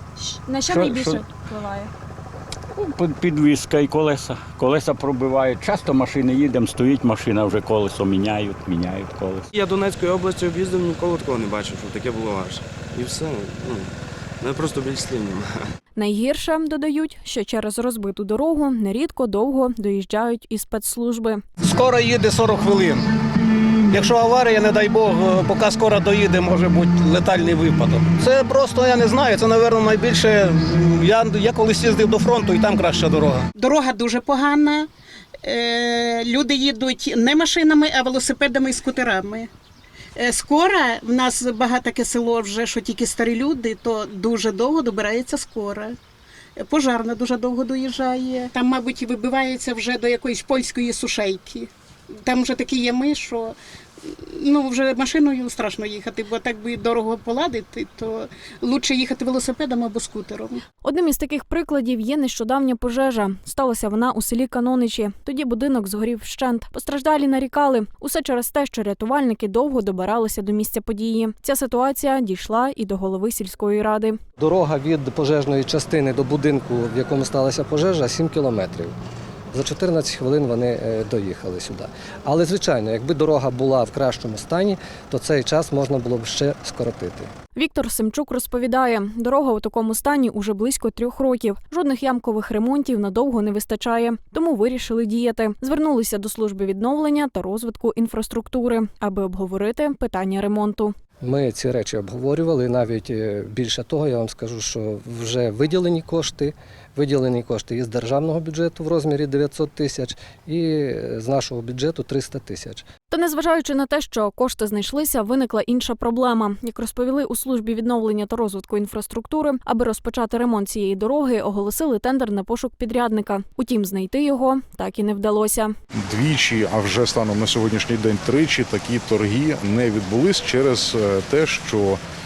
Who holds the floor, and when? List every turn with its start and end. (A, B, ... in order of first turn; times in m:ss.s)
0:00.2-0:01.9 A
0:00.7-0:01.2 B
0:02.7-0:09.5 B
0:09.5-0:15.6 C
0:16.0-0:21.4 A
0:21.6-0:33.5 D
0:33.6-0:34.9 E
0:35.4-0:39.5 E
0:40.2-0:45.9 E
0:46.6-0:51.7 E
0:52.2-1:00.6 E
1:00.8-1:14.2 A
1:14.4-1:18.9 F
1:19.5-1:27.3 F
1:27.6-1:40.9 A
1:41.2-1:52.8 F
1:53.1-2:05.7 A
2:06.1-2:12.0 G